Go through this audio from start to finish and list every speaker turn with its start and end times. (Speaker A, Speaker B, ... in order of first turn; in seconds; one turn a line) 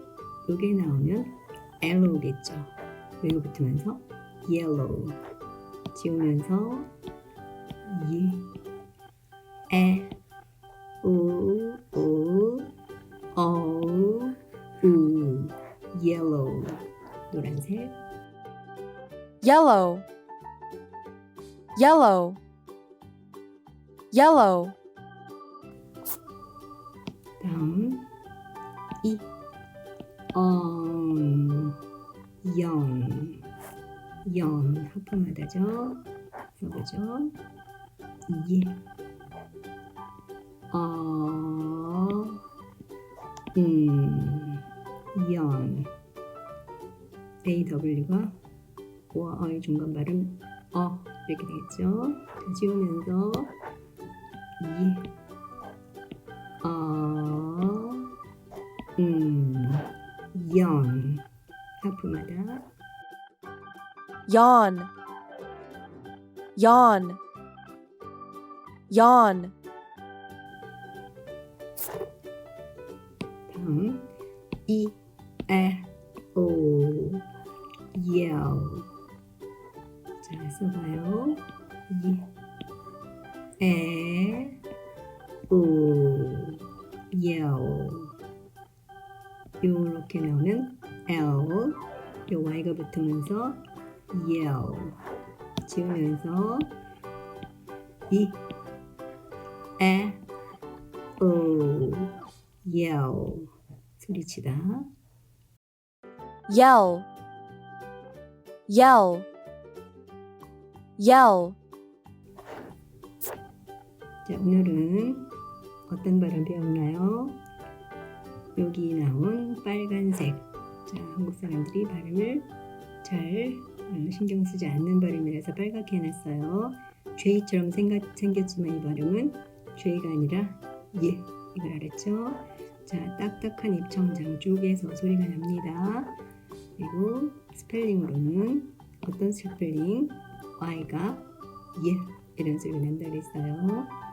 Speaker A: 0.4-5.2
Speaker A: 5.9-6.9
Speaker A: 7.8-8.5
Speaker A: 9.7-10.1
Speaker A: 11.0-12.7
Speaker A: 13.3-17.9
Speaker B: 19.4-20.1
Speaker B: 21.7-22.4
Speaker B: 24.1-24.8
Speaker A: 27.4-28.1
Speaker A: 29.0-29.3
Speaker A: 30.3-31.8
Speaker A: 32.4-33.4
Speaker A: 34.2-37.4
Speaker A: 38.3-38.8
Speaker A: 40.7-42.4
Speaker A: 43.5-44.6
Speaker A: 45.1-45.9
Speaker A: 47.4-48.4
Speaker A: 49.1-53.5
Speaker A: 54.6-55.1
Speaker A: 56.6-58.1
Speaker A: 59.0-61.2
Speaker A: 61.8-62.7
Speaker B: 64.3-64.9
Speaker B: 66.5-67.2
Speaker B: 68.9-69.5
Speaker A: 73.5-74.1
Speaker A: 74.7-77.2
Speaker A: 77.9-78.9
Speaker A: 80.2-82.3
Speaker A: 83.6-84.6
Speaker A: 85.5-88.2
Speaker A: 89.6-93.6
Speaker A: 94.1-95.0
Speaker A: 95.6-96.7
Speaker A: 98.1-98.4
Speaker A: 99.8-100.2
Speaker A: 101.2-102.1
Speaker A: 102.6-104.9
Speaker B: 106.5-107.1
Speaker B: 108.7-109.3
Speaker B: 111.0-111.6
Speaker A: 114.2-115.3
Speaker A: 115.9-117.4
Speaker A: 118.5-122.5
Speaker A: 123.0-136.2
Speaker A: 136.8-143.9